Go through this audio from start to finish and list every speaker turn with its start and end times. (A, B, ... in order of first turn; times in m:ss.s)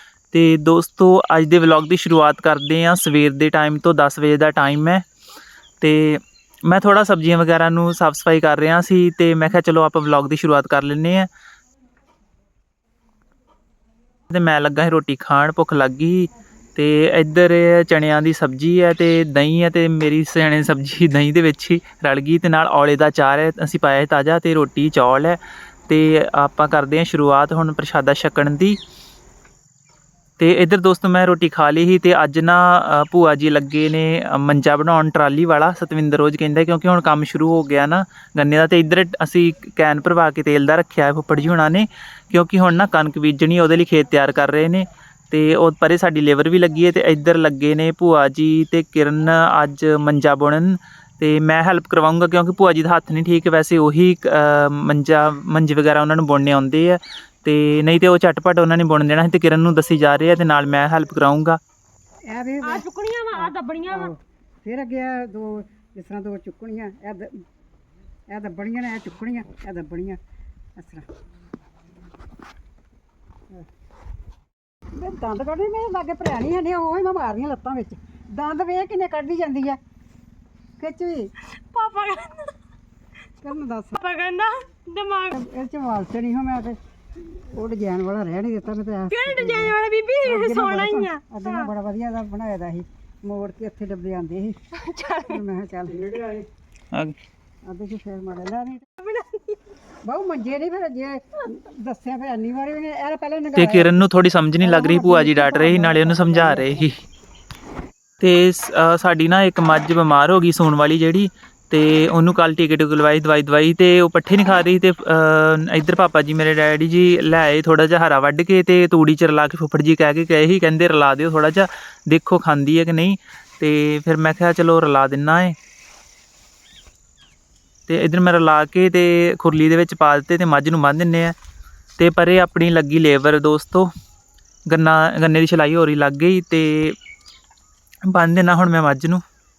0:00.3-0:05.0 A
0:05.8-0:11.3 A
0:14.3-0:28.8 A
0:30.4-1:01.6 A
1:02.3-1:02.9 B
1:02.6-1:04.1 C
1:03.4-1:07.4 B
1:08.3-1:10.2 B
1:10.8-1:11.1 B
1:15.0-1:19.8 B
1:20.8-1:21.3 B
1:21.5-1:22.6 C
1:23.4-1:24.0 B
1:24.0-1:25.3 C
1:25.3-1:34.6 B
1:29.1-1:31.7 C
1:34.8-1:35.4 C
1:35.2-1:36.5 B
1:37.6-1:38.9 B
1:39.0-1:39.6 C
1:40.0-1:44.0 B
1:43.6-1:47.0 A
1:44.6-1:46.9 B
1:48.2-2:05.6 A
2:07.9-2:11.4 A
2:12.0-2:13.9 A
2:14.7-2:17.0 A
2:18.0-2:19.2 A